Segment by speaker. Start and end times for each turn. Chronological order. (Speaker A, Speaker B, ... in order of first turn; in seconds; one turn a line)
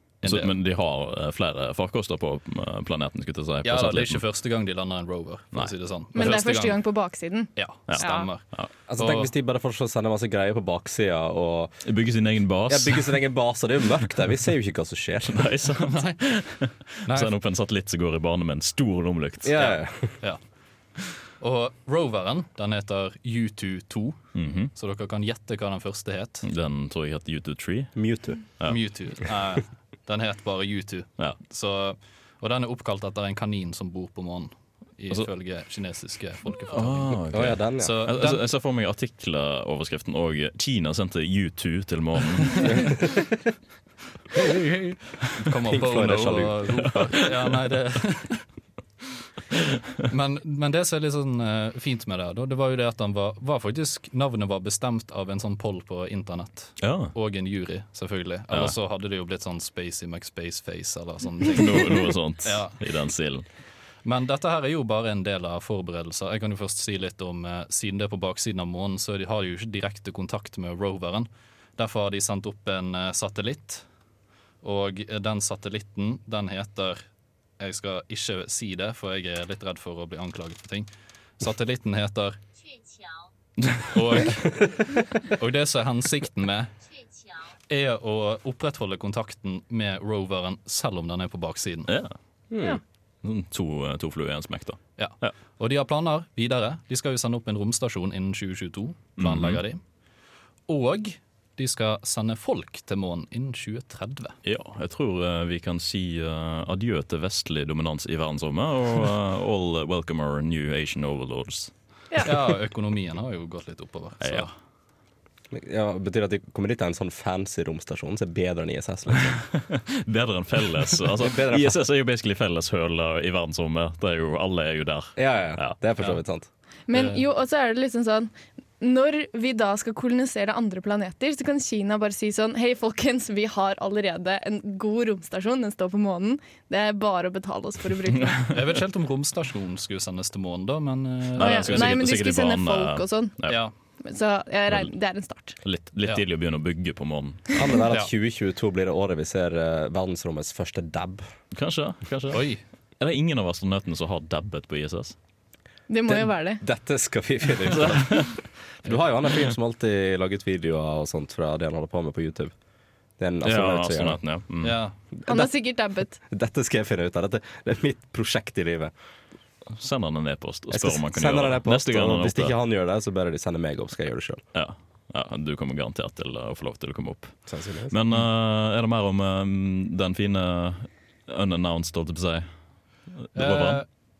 Speaker A: 0.2-4.2
Speaker B: 0.2-0.5
Speaker B: 3.6-6.8
Speaker C: 6.1-8.3
Speaker B: 7.5-9.3
Speaker A: 7.9-8.7
Speaker D: 8.9-11.7
Speaker A: 11.8-13.2
Speaker D: 12.7-15.5
Speaker A: 15.3-19.7
Speaker B: 15.8-16.1
Speaker B: 17.1-17.3
Speaker D: 19.4-20.2
Speaker B: 19.6-20.4
Speaker B: 21.4-24.2
Speaker A: 24.3-24.7
Speaker B: 24.7-26.4
Speaker A: 26.4-28.0
Speaker D: 27.9-28.4
Speaker B: 28.7-38.4
Speaker A: 36.6-42.9
Speaker D: 37.3-38.0
Speaker B: 42.5-42.8
Speaker D: 42.6-43.4
Speaker B: 44.3-48.4
Speaker D: 45.6-47.1
Speaker B: 50.0-62.8
Speaker A: 56.8-57.1
Speaker A: 61.5-63.4
Speaker B: 64.0-73.8
Speaker B: 74.6-77.0
Speaker B: 77.6-82.4
Speaker B: 83.9-86.7
Speaker B: 87.7-91.9
Speaker A: 91.9-92.1
Speaker D: 92.5-92.8
Speaker A: 93.2-95.3
Speaker B: 95.0-99.8
Speaker A: 99.2-99.6
Speaker B: 100.7-104.4
Speaker A: 104.4-111.7
Speaker B: 112.2-114.5
Speaker A: 114.2-114.5
Speaker D: 115.5-119.4
Speaker A: 119.6-125.8
Speaker D: 121.2-121.8
Speaker D: 125.2-126.5
Speaker C: 126.9-138.5
Speaker B: 126.9-127.2
Speaker B: 138.5-141.9
Speaker A: 141.3-143.6
Speaker C: 141.4-143.3
Speaker B: 143.5-143.7
Speaker C: 144.0-145.6
Speaker A: 145.6-147.6
Speaker D: 147.5-151.2
Speaker A: 151.5-155.1
Speaker B: 152.3-152.6
Speaker C: 155.9-156.6
Speaker D: 156.1-162.5
Speaker A: 157.8-158.3
Speaker D: 163.2-164.2
Speaker A: 163.4-164.8
Speaker B: 164.6-164.9
Speaker D: 165.2-165.5
Speaker C: 165.2-166.2
Speaker D: 166.3-168.9
Speaker A: 169.7-172.5
Speaker D: 170.7-174.4
Speaker A: 174.5-177.4
Speaker D: 177.5-177.9
Speaker A: 177.9-182.5
Speaker A: 183.2-183.8
Speaker B: 183.3-183.8